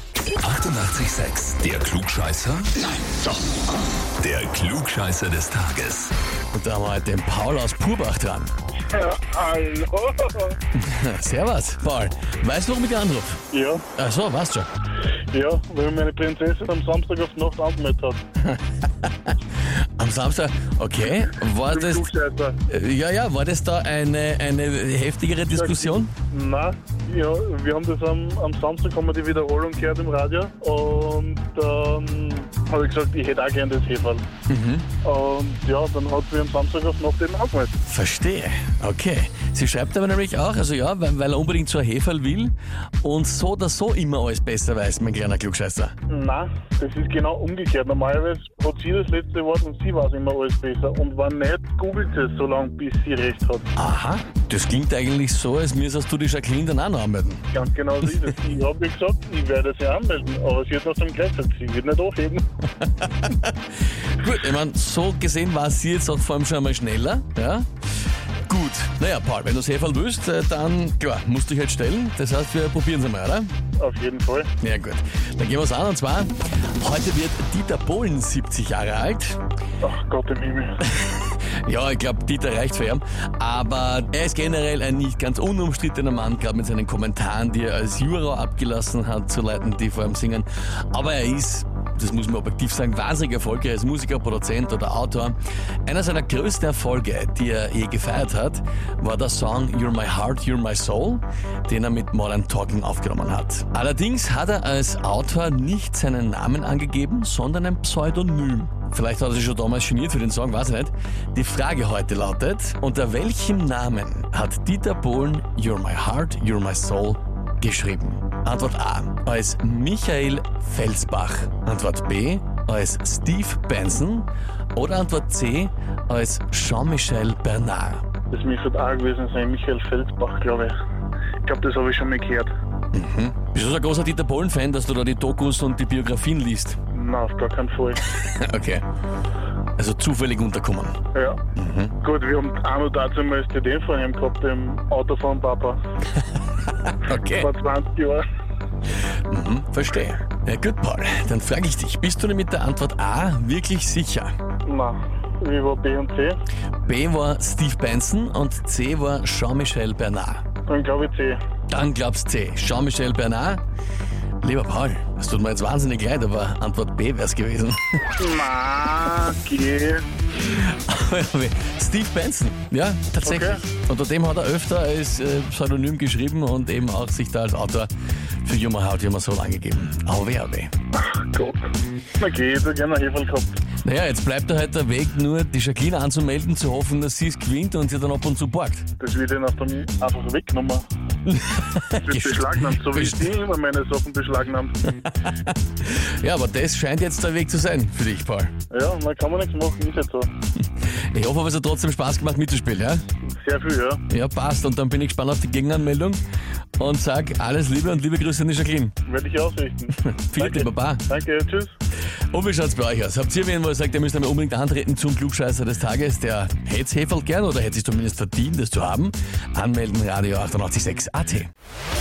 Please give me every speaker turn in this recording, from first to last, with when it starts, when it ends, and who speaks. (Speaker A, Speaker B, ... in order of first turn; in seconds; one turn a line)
Speaker A: 0.3-2.9
Speaker A: 4.2-6.1
Speaker B: 6.5-8.5
Speaker C: 8.9-10.6
Speaker B: 10.7-13.4
Speaker C: 13.5-13.8
Speaker B: 13.9-14.7
Speaker C: 15.3-18.2
Speaker B: 18.4-22.1
Speaker C: 21.7-22.6
Speaker B: 22.7-26.1
Speaker C: 25.5-34.2
Speaker B: 34.5-34.9
Speaker C: 35.0-37.8
Speaker B: 37.9-45.9
Speaker C: 46.1-53.7
Speaker B: 53.8-57.4
Speaker C: 57.5-62.4
Speaker B: 62.8-67.7
Speaker B: 68.5-73.5
Speaker C: 73.8-74.5
Speaker B: 74.6-79.4
Speaker C: 79.8-80.8
Speaker B: 80.8-128.0
Speaker C: 128.3-130.8
Speaker C: 131.4-132.5
Speaker B: 132.9-136.8
Speaker C: 136.9-138.0
Speaker B: 138.1-138.8
Speaker B: 139.8-140.9
Speaker C: 141.1-141.4
Speaker B: 141.5-141.9
Speaker C: 142.0-145.8
Speaker B: 146.8-147.5
Speaker C: 147.0-148.2
Speaker B: 149.3-154.3
Speaker C: 154.7-156.4
Speaker B: 156.8-160.4
Speaker C: 160.7-161.4
Speaker B: 161.7-163.6
Speaker B: 164.4-168.0
Speaker C: 168.2-170.1
Speaker B: 170.4-177.9
Speaker C: 173.2-173.6
Speaker B: 178.4-180.7
Speaker C: 180.9-183.6
Speaker B: 183.8-188.8
Speaker C: 189.0-190.8
Speaker B: 191.2-193.3
Speaker C: 191.9-194.7
Speaker B: 194.9-198.5
Speaker C: 198.7-200.3
Speaker B: 200.9-203.0
Speaker C: 203.3-204.0
Speaker B: 204.1-206.2
Speaker B: 206.8-208.9
Speaker C: 209.0-211.7
Speaker B: 210.1-211.0
Speaker B: 212.3-221.5